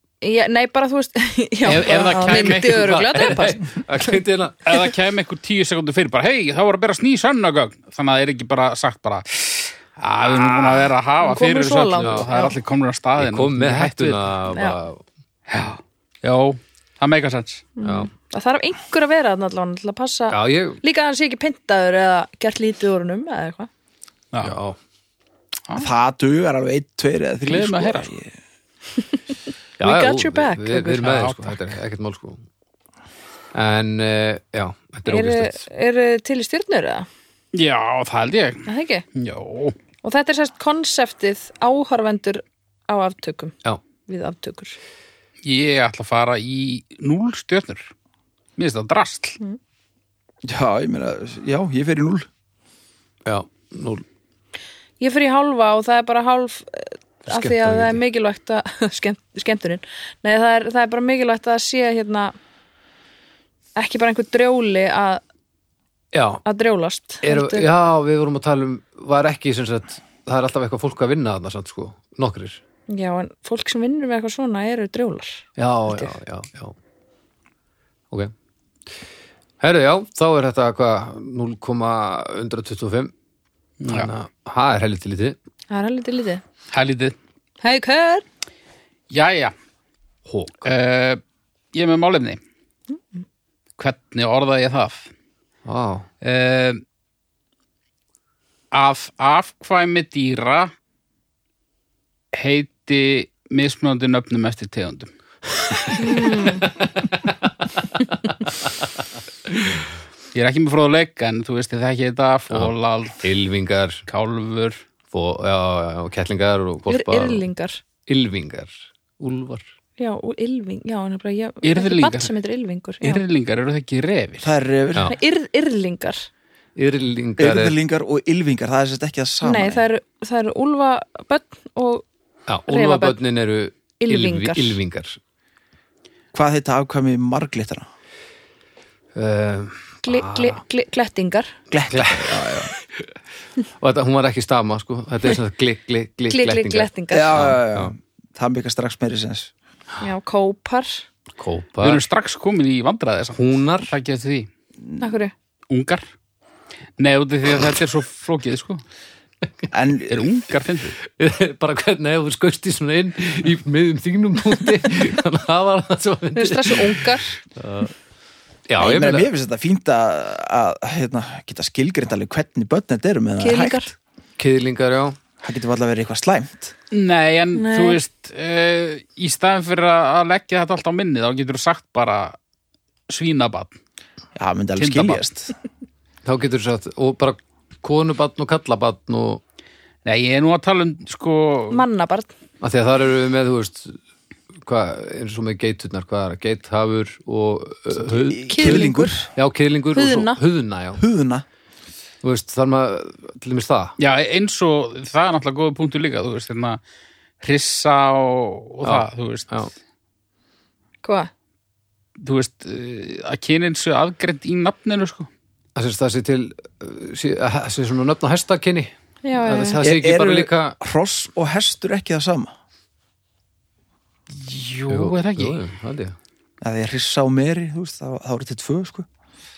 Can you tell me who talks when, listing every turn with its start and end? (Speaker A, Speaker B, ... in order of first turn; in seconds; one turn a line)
Speaker A: 0.2-3.6
Speaker B: 1.7-3.6
Speaker C: 1.7-4.7
Speaker B: 4.7-14.4
Speaker C: 10.2-10.9
Speaker A: 11.2-12.6
Speaker C: 12.0-12.3
Speaker C: 13.2-15.0
Speaker A: 14.5-14.8
Speaker B: 15.5-17.7
Speaker A: 17.8-23.7
Speaker C: 17.8-18.1
Speaker C: 20.3-20.8
Speaker C: 24.4-24.8
Speaker D: 25.8-28.3
Speaker B: 27.5-28.1
Speaker C: 29.8-32.4
Speaker A: 29.8-31.1
Speaker B: 31.0-31.8
Speaker C: 33.5-35.6
Speaker A: 35.1-37.1
Speaker B: 37.5-39.8
Speaker A: 38.7-39.0
Speaker A: 40.0-43.5
Speaker A: 44.1-44.8
Speaker B: 45.4-47.9
Speaker B: 48.6-49.4
Speaker D: 50.5-52.3
Speaker C: 53.2-54.0
Speaker A: 55.0-62.4
Speaker C: 57.3-58.0
Speaker A: 63.8-65.2
Speaker C: 66.1-66.4
Speaker A: 66.5-67.7
Speaker C: 67.2-72.6
Speaker A: 72.9-76.1
Speaker C: 75.6-76.8
Speaker C: 79.6-83.1
Speaker B: 83.8-84.1
Speaker C: 83.9-85.4
Speaker A: 85.7-86.4
Speaker B: 86.7-87.2
Speaker A: 87.6-88.2
Speaker B: 89.1-89.5
Speaker C: 90.3-90.7
Speaker B: 90.6-91.2
Speaker B: 91.7-92.4
Speaker B: 93.8-95.1
Speaker C: 95.7-96.1
Speaker B: 96.2-96.8
Speaker B: 98.7-100.7
Speaker B: 102.3-105.1
Speaker C: 105.7-108.9
Speaker A: 106.0-106.6
Speaker B: 110.3-113.3
Speaker C: 112.5-114.1
Speaker B: 114.1-114.8
Speaker C: 115.1-117.5
Speaker A: 116.9-117.8
Speaker C: 118.1-119.7
Speaker A: 120.0-123.2
Speaker B: 121.6-122.3
Speaker B: 123.0-124.5
Speaker D: 124.4-125.2
Speaker A: 125.0-126.3
Speaker C: 126.8-127.8
Speaker D: 127.4-129.8
Speaker A: 129.4-132.1
Speaker C: 132.5-135.2
Speaker A: 132.7-133.2
Speaker A: 134.0-134.8
Speaker D: 136.3-137.9
Speaker C: 139.2-140.6
Speaker A: 140.0-141.5
Speaker D: 141.7-142.7
Speaker C: 141.9-143.1
Speaker C: 143.8-147.9
Speaker A: 146.3-147.5
Speaker D: 147.1-149.5
Speaker A: 150.0-151.1
Speaker C: 151.4-152.0
Speaker B: 151.8-154.5
Speaker C: 153.4-153.9
Speaker A: 155.0-155.3
Speaker B: 155.7-156.1
Speaker B: 157.0-158.8
Speaker D: 159.7-160.3
Speaker B: 160.1-161.0
Speaker C: 161.0-167.9
Speaker A: 166.3-167.4
Speaker C: 168.7-169.3
Speaker D: 168.8-173.9
Speaker A: 173.4-173.9
Speaker C: 174.4-175.2
Speaker D: 175.4-176.7
Speaker B: 176.9-182.4
Speaker A: 177.5-178.0
Speaker B: 183.1-183.8
Speaker D: 184.4-185.6
Speaker B: 184.8-185.2
Speaker C: 186.2-189.4
Speaker B: 190.1-191.8
Speaker A: 191.7-192.3
Speaker C: 192.6-194.0
Speaker C: 194.6-201.0
Speaker D: 198.0-199.2
Speaker A: 198.5-199.3
Speaker A: 199.9-200.4
Speaker D: 201.0-201.4
Speaker C: 202.2-204.0
Speaker B: 204.0-206.8
Speaker B: 207.4-209.7
Speaker C: 208.8-209.7
Speaker A: 211.0-211.3
Speaker B: 212.2-215.3
Speaker C: 215.8-220.8
Speaker A: 219.2-219.8
Speaker D: 219.8-222.5
Speaker B: 224.3-225.7
Speaker C: 224.9-226.2
Speaker D: 226.6-229.1